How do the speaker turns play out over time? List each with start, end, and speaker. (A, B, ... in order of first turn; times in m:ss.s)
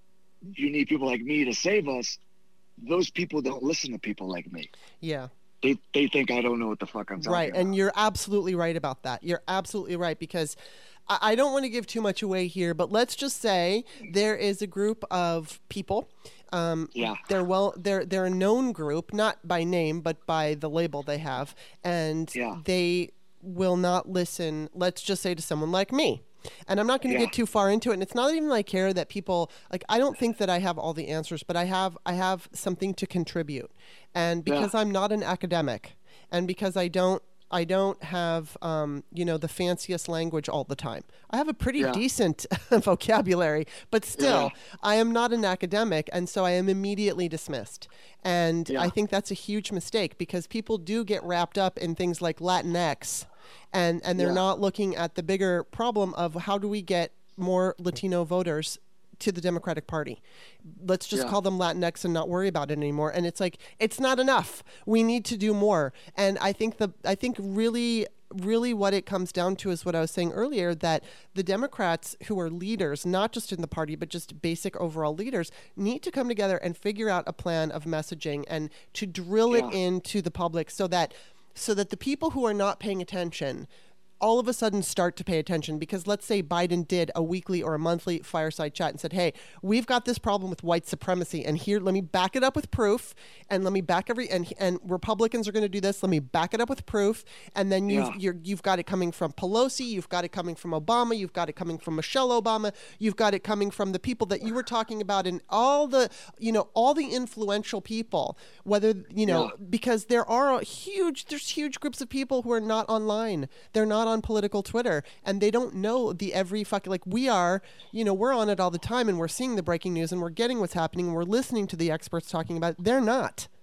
0:00.4-0:02.2 A
0:02.8-0:04.7 A
0:05.0-0:05.3 B
0:05.6-0:07.7 A
0:07.2-0:10.5 B
0:11.1-1:23.7 B
0:17.0-0:17.2 A
0:22.3-0:22.6 A
0:27.1-0:27.3 A
0:34.5-0:34.7 A
0:44.2-0:44.5 A
0:54.2-0:54.4 A
1:19.5-1:19.8 A
1:24.2-2:03.5 B
1:37.9-1:38.2 A
1:49.2-1:49.5 A